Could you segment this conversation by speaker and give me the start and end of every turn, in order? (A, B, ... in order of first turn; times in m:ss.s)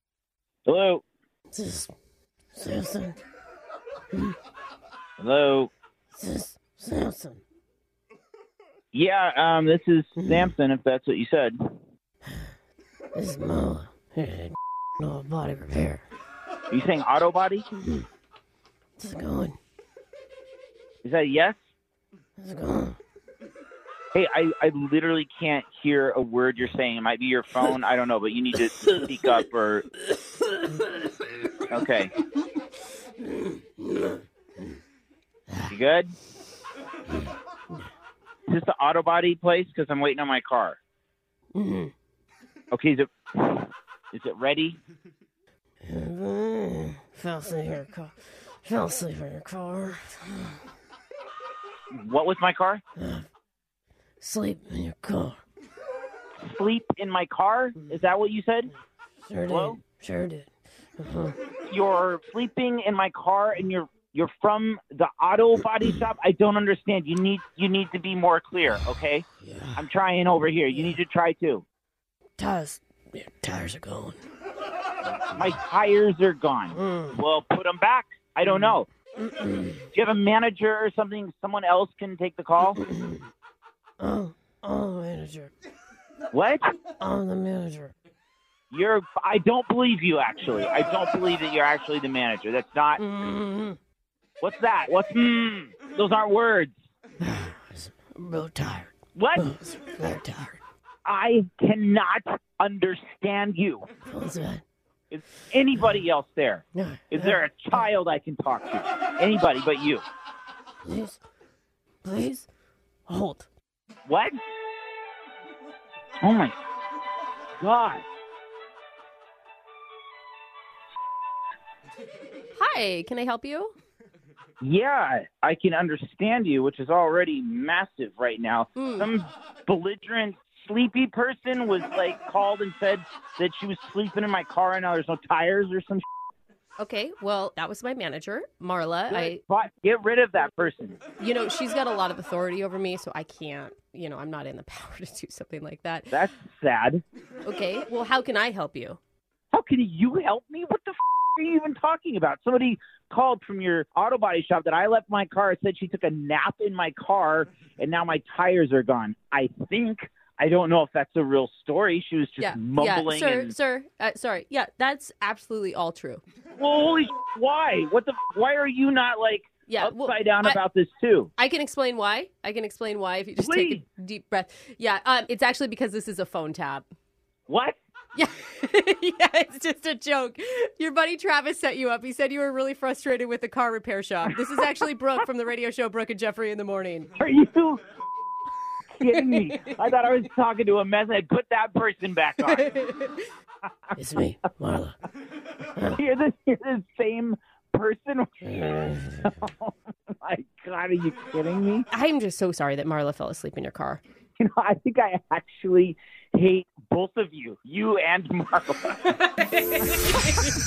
0:00.6-0:01.0 A
0:01.5-0:01.9 B
0:02.5-0:03.2 B
0:05.2-0:05.7 A
0:06.2-0:07.4 B
0:08.9-0:11.6 A
0:10.2-0:10.5 B
0:13.1-0:16.0 B
0:16.7-0:17.6 A
0:19.0-0:19.6 B
0:21.0-0:21.6 A
0:22.4-0:23.0 B
0:24.1-0:29.8 A
0:31.7-0:32.1 A
0:35.7-0:36.1 A
0:38.5-0:40.8 A
0:41.5-0:41.9 B
0:42.7-0:44.8 A
0:45.8-0:48.1 B
0:48.6-0:50.6 B
0:51.9-0:52.8 A
0:53.0-0:53.2 B
0:54.2-0:55.4 B
0:56.4-0:58.7 A
0:59.2-1:00.5 B
0:59.5-0:59.8 A
1:01.0-1:01.4 B
1:01.5-1:09.2 A
1:09.4-1:09.8 B
1:09.8-1:11.6 A
1:12.4-1:14.2 B
1:15.4-1:18.9 A
1:16.7-1:17.2 B
1:19.2-1:19.8 B
1:19.9-1:22.8 A
1:22.8-1:23.2 B
1:24.0-1:25.5 B
1:26.3-1:26.7 A
1:27.0-1:27.9 B
1:28.7-1:33.0 A
1:33.0-1:33.8 B
1:34.4-1:36.7 A
1:37.2-1:40.6 B
1:39.1-1:39.5 A
1:41.0-1:43.9 A
1:44.1-1:44.6 B
1:45.1-1:50.0 A
1:46.7-1:47.8 B
1:50.8-1:51.2 B
1:52.0-1:52.4 B
1:53.1-1:53.4 B
1:54.0-1:54.4 A
1:56.2-1:56.5 A
1:57.6-1:58.0 A
2:02.6-2:03.7 C
2:04.6-2:16.0 A
2:08.8-2:09.1 C
2:16.8-2:19.4 C
2:19.1-2:21.0 A
2:21.2-2:26.2 C
2:26.1-2:27.0 A
2:27.4-2:29.0 C
2:29.5-2:43.5 A
2:42.4-2:46.2 C
2:46.5-2:51.3 A
2:49.7-2:50.6 C
2:51.4-2:56.8 C
2:53.4-2:53.8 A
2:57.5-2:57.8 A
2:58.1-3:07.1 C
3:07.2-3:07.8 A
3:08.9-3:12.7 A
3:09.2-3:09.7 C
3:12.4-3:13.3 C
3:14.0-3:14.9 B
3:15.9-3:18.5 A
3:18.5-3:19.3 B
3:19.3-3:21.9 A
3:21.9-3:24.0 C
3:24.4-3:29.2 A
3:29.4-3:30.0 C